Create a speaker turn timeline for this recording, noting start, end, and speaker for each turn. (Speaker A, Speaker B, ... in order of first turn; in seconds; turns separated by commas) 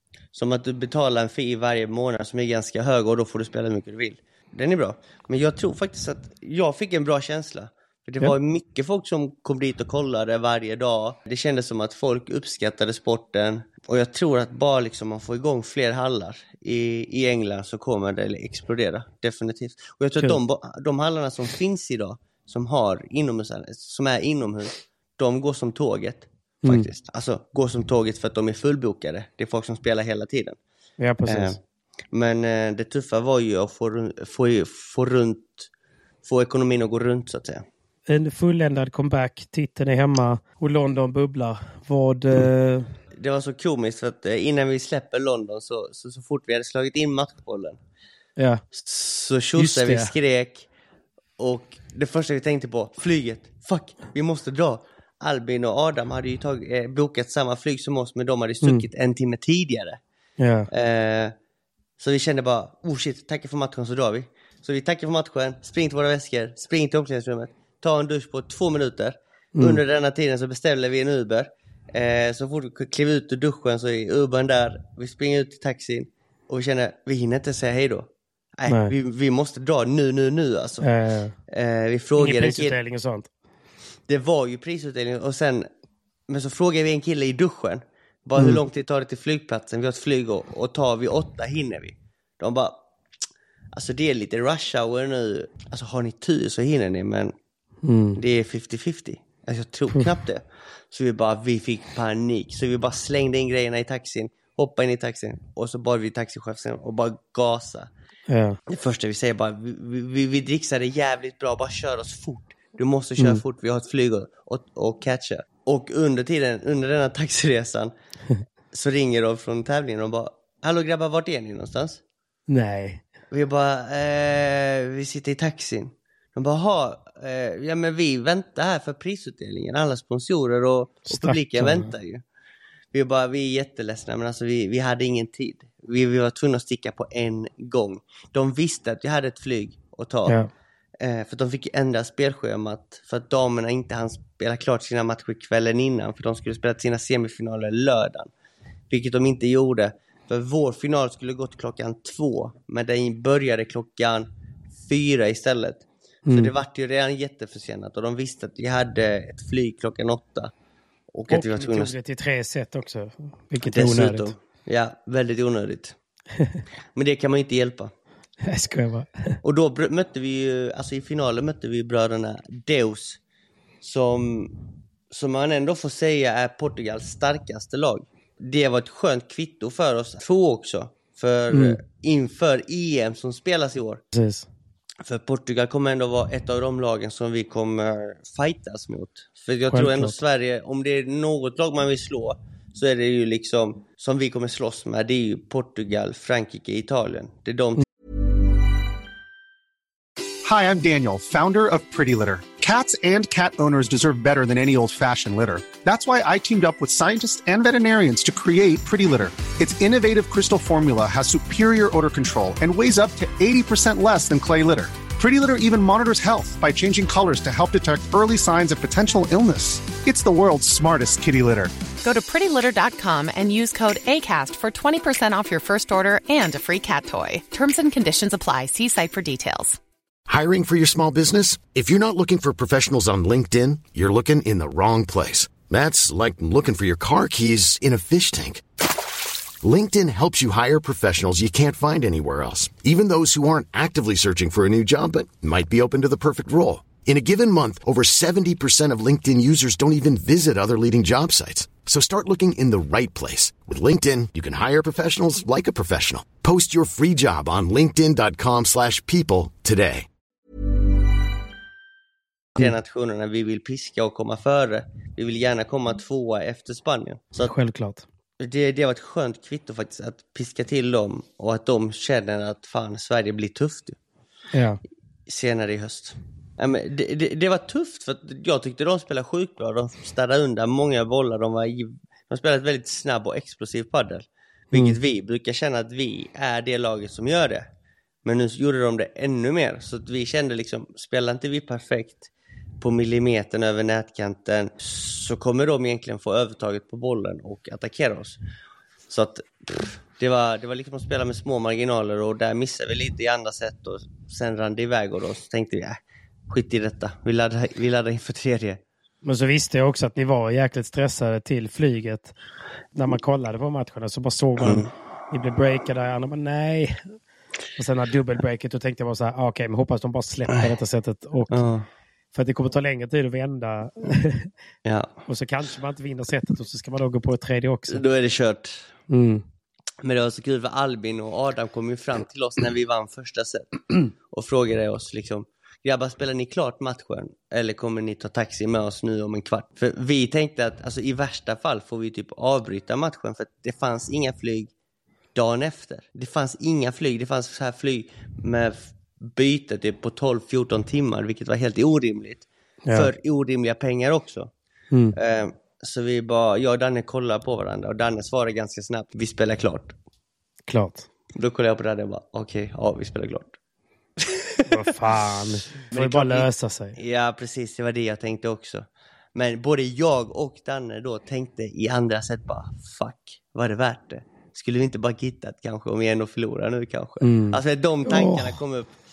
Speaker A: 0.3-30.6, Speaker B: 31.0-31.6, Speaker A: 31.2-31.6, Speaker A: 32.1-35.7, Speaker A: 36.2-37.6, Speaker B: 38.1-42.9, Speaker A: 43.1-47.8, Speaker B: 48.4-48.6, Speaker A: 48.8-50.7, Speaker B: 49.5-50.1, Speaker A: 51.4-60.0, Speaker B: 60.4-60.7, Speaker A: 60.7-61.3, Speaker A: 62.0-80.9, Speaker B: 69.5-69.8, Speaker B: 78.7-78.9, Speaker B: 80.8-81.3, Speaker A: 81.5-82.8, Speaker B: 82.2-83.3, Speaker A: 84.1-85.7, Speaker A: 86.3-92.8, Speaker A: 93.7-97.3, Speaker B: 97.8-98.2, Speaker A: 98.2-107.9, Speaker B: 108.3-108.6, Speaker A: 108.7-117.9, Speaker A: 118.7-122.0, Speaker B: 122.5-123.0, Speaker A: 123.3-132.2, Speaker B: 131.1-131.9, Speaker A: 132.9-140.4, Speaker A: 141.0-148.3, Speaker A: 148.9-154.3, Speaker A: 154.8-160.5, Speaker B: 156.2-156.5, Speaker A: 161.1-161.9, Speaker B: 161.3-164.3, Speaker A: 163.6-165.9, Speaker A: 166.9-167.9, Speaker B: 168.4-169.4, Speaker A: 169.4-173.2, Speaker A: 173.8-174.5, Speaker A: 175.1-184.0, Speaker B: 181.5-181.8, Speaker B: 184.1-184.5, Speaker A: 185.0-197.8, Speaker B: 189.7-190.1, Speaker C: 200.4-221.7, Speaker D: 222.0-229.8, Speaker E: 230.3-238.6, Speaker E: 239.6-260.1, Speaker A: 262.6-267.5, Speaker B: 267.4-268.0, Speaker A: 268.4-274.0, Speaker B: 274.5-274.8, Speaker A: 275.3-287.6, Speaker B: 284.7-285.0, Speaker A: 288.2-298.4, Speaker A: 299.1-308.8, Speaker B: 309.2-312.4, Speaker B: 312.9-317.0, Speaker A: 314.6-314.9, Speaker B: 317.8-321.6, Speaker A: 321.5-321.9, Speaker B: 322.3-324.5, Speaker A: 324.8-325.1, Speaker B: 325.3-328.0, Speaker A: 327.9-328.9, Speaker B: 329.1-329.4, Speaker A: 330.0-344.7, Speaker A: 345.3-354.5, Speaker B: 352.8-353.1, Speaker A: 355.1-359.9, Speaker B: 360.7-361.1, Speaker A: 361.3-363.6, Speaker A: 364.2-364.5, Speaker B: 364.6-366.9, Speaker A: 365.9-379.0, Speaker B: 377.2-378.6